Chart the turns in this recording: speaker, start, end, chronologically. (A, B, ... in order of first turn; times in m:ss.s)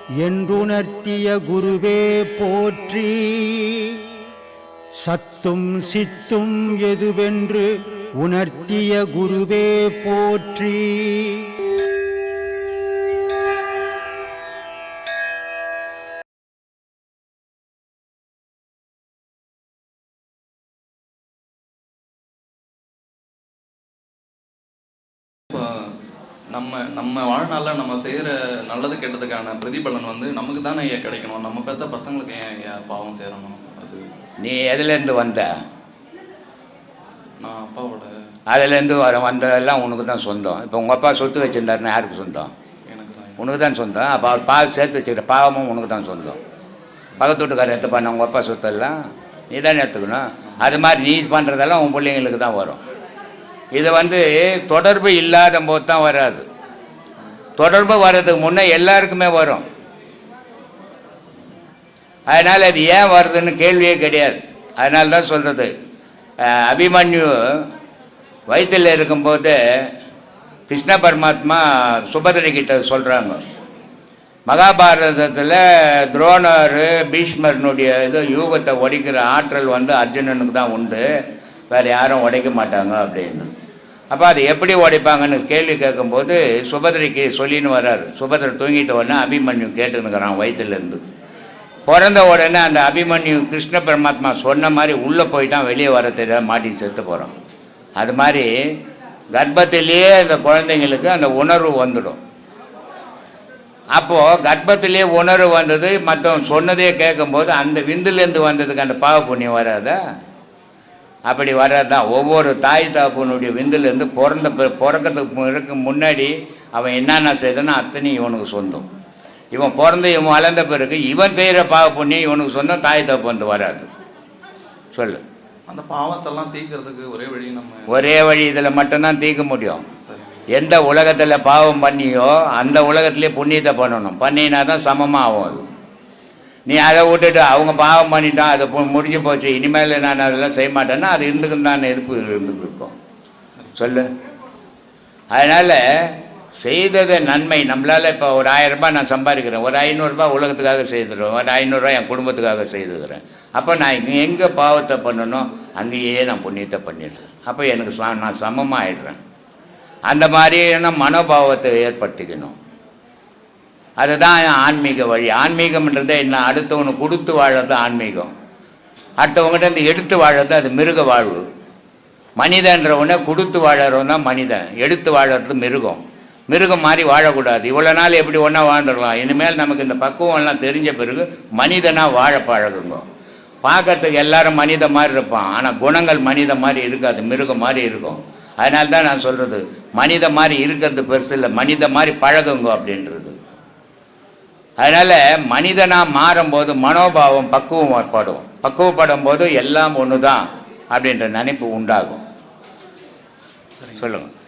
0:00.2-0:04.0 A
0:05.0-0:11.5 A
0:26.5-0:34.0 B
0:34.4-0:35.5 C
0:37.4-0:38.1 B
0:38.5-0:42.5 C
0:42.9-0:43.4 B
0:43.4-0:46.4 C
0:47.2-0:48.9 C
0:49.5-0:52.8 C
0:53.7-0:56.4 C
0:57.6-0:59.6 C
1:02.3-1:05.7 C
1:06.4-1:07.6 C
1:08.5-1:09.6 C
1:10.7-1:13.4 C
1:14.5-1:21.0 C
1:21.7-1:23.5 C
1:24.1-1:31.0 C
1:31.8-1:37.3 C
1:38.0-1:38.5 C
1:39.4-1:42.2 C
1:43.9-1:50.0 C
1:51.3-1:58.8 C
1:59.5-2:03.8 C
2:04.9-2:05.2 C
2:05.7-2:07.9 B
2:07.9-2:09.8 C
2:10.0-2:10.4 B
2:10.5-2:15.6 C
2:16.7-2:22.9 C
2:23.8-2:24.1 C
2:25.3-2:25.8 C
2:26.6-2:39.2 C
2:40.1-2:42.5 C
2:44.0-2:48.3 C
2:49.2-2:51.4 C
2:52.4-3:03.0 C
3:03.6-3:13.3 C
3:14.8-3:22.2 C
3:23.8-3:24.0 B
3:24.0-3:24.3 C